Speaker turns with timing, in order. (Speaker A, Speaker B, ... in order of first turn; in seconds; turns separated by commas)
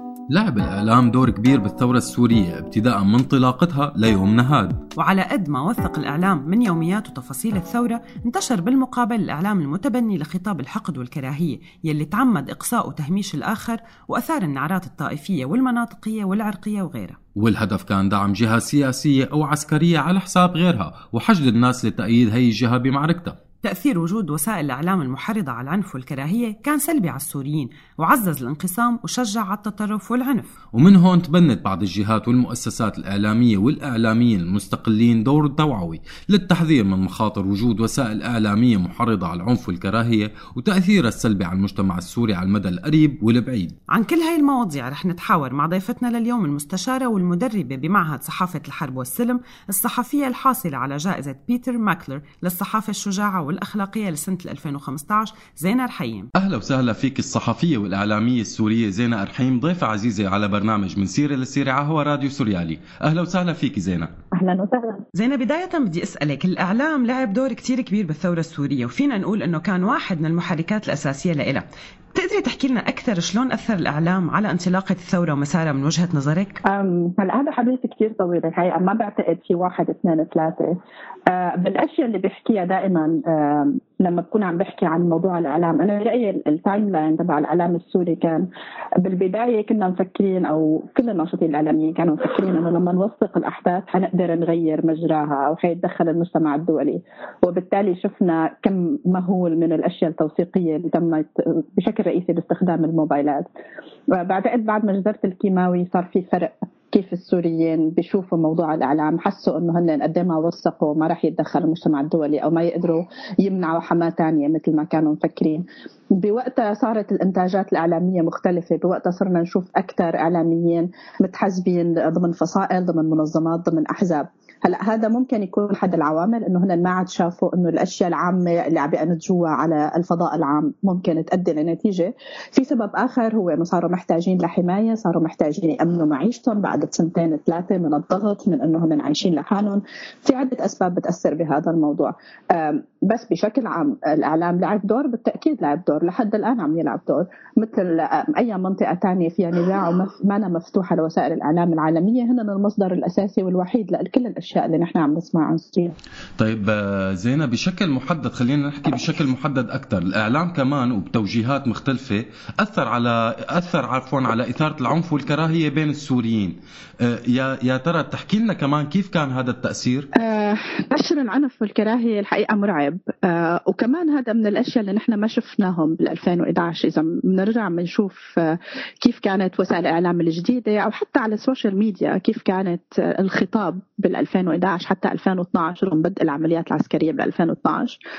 Speaker A: 0.3-4.8, Speaker B: 5.0-17.2, Speaker A: 17.4-23.4, Speaker B: 23.6-30.5, Speaker A: 30.8-43.8, Speaker B: 43.9-56.3, Speaker A: 56.4-64.1, Speaker C: 64.3-65.0, Speaker B: 65.2-76.6, Speaker C: 76.7-80.8, Speaker C: 81.3-88.5, Speaker C: 89.0-103.5, Speaker C: 104.1-115.7, Speaker C: 116.2-155.9, Speaker A: 156.4-170.1, Speaker C: 170.2-188.0